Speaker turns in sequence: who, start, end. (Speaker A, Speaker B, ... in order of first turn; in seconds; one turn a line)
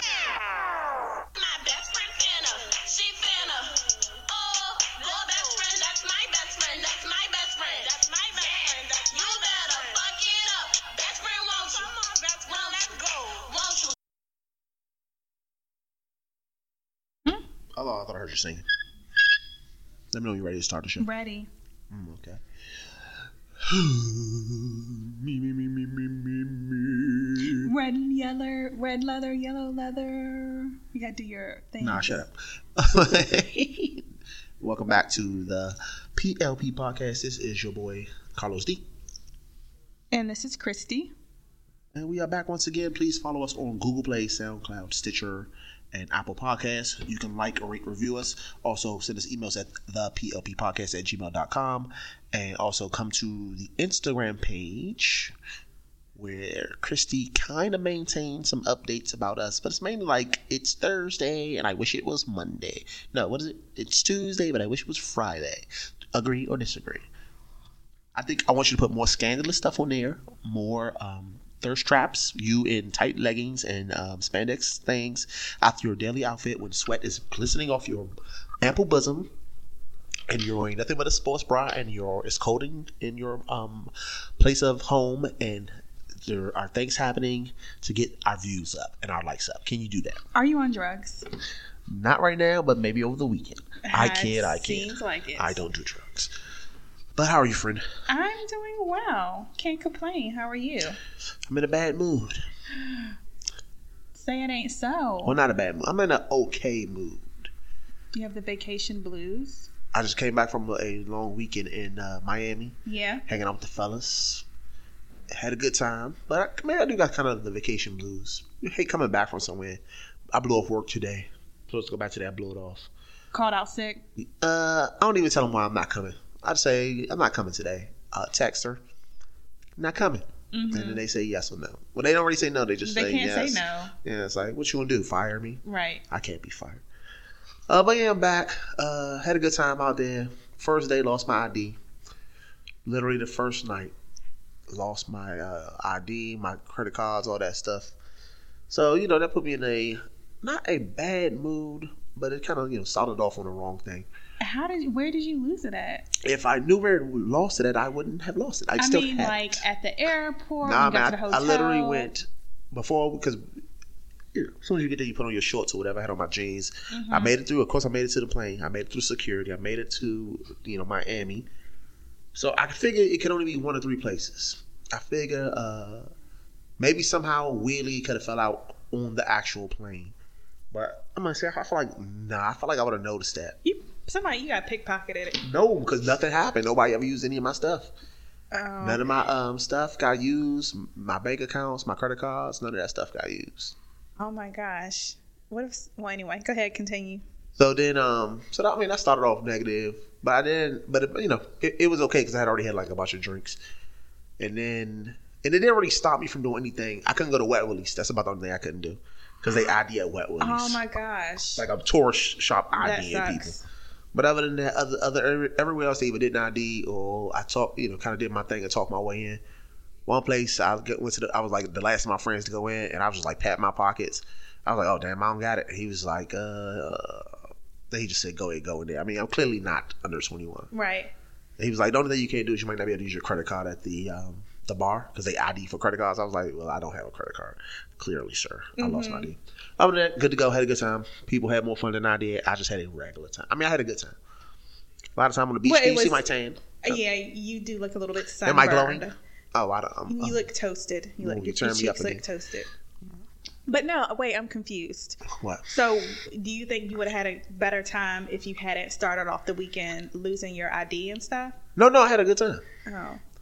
Speaker A: 1.3-13.9
Speaker B: 17.8-18.6
Speaker B: 20.1-21.1
Speaker C: 21.0-21.5
Speaker B: 21.9-22.4
Speaker B: 23.6-27.7
Speaker C: 27.6-32.2
Speaker B: 31.8-34.0
Speaker B: 34.6-38.8
Speaker C: 40.1-41.1
Speaker B: 42.0-55.4
Speaker B: 56.2-67.1
Speaker B: 68.2-79.3
Speaker B: 80.3-85.7
Speaker B: 86.2-90.2
Speaker C: 90.3-91.3
Speaker B: 91.9-96.3
Speaker C: 93.9-95.6
Speaker B: 97.2-97.8
Speaker C: 98.1-101.0
Speaker B: 101.5-102.4
Speaker C: 102.7-103.2
Speaker C: 104.2-105.4
Speaker B: 105.2-107.5
Speaker C: 108.1-109.7
Speaker B: 109.9-112.8
Speaker C: 112.9-113.2
Speaker B: 113.3-114.5
Speaker B: 115.3-119.8
Speaker B: 120.3-122.9
Speaker C: 123.3-124.0
Speaker B: 124.2-128.8
Speaker B: 129.8-136.8
Speaker C: 130.5-131.0
Speaker C: 132.8-133.9
Speaker C: 135.7-136.0
Speaker B: 137.7-141.8
Speaker B: 142.8-143.9
Speaker B: 144.7-147.9
Speaker B: 148.7-154.1
Speaker C: 154.4-156.1
Speaker B: 156.2-159.6
Speaker C: 158.8-162.1
Speaker B: 160.6-163.4
Speaker B: 164.3-171.5
Speaker C: 166.9-167.3
Speaker B: 172.3-176.1
Speaker B: 176.8-180.2
Speaker B: 180.7-183.6
Speaker C: 183.6-185.4
Speaker B: 185.4-187.9
Speaker C: 188.5-189.0
Speaker B: 188.8-193.8
Speaker C: 194.2-197.2
Speaker B: 197.6-203.6
Speaker B: 204.4-210.8
Speaker C: 210.4-211.7
Speaker B: 211.6-213.6
Speaker C: 212.7-213.6
Speaker B: 214.1-219.4
Speaker B: 220.1-227.3
Speaker B: 227.9-230.7
Speaker C: 230.7-231.1
Speaker B: 231.6-244.2
Speaker C: 238.8-239.3
Speaker B: 245.2-247.0
Speaker C: 245.6-246.2
Speaker C: 246.8-249.2
Speaker B: 248.4-250.4
Speaker C: 250.1-252.7
Speaker B: 251.2-252.2
Speaker C: 253.7-261.6
Speaker B: 255.3-255.7
Speaker B: 261.8-262.6
Speaker C: 262.9-263.2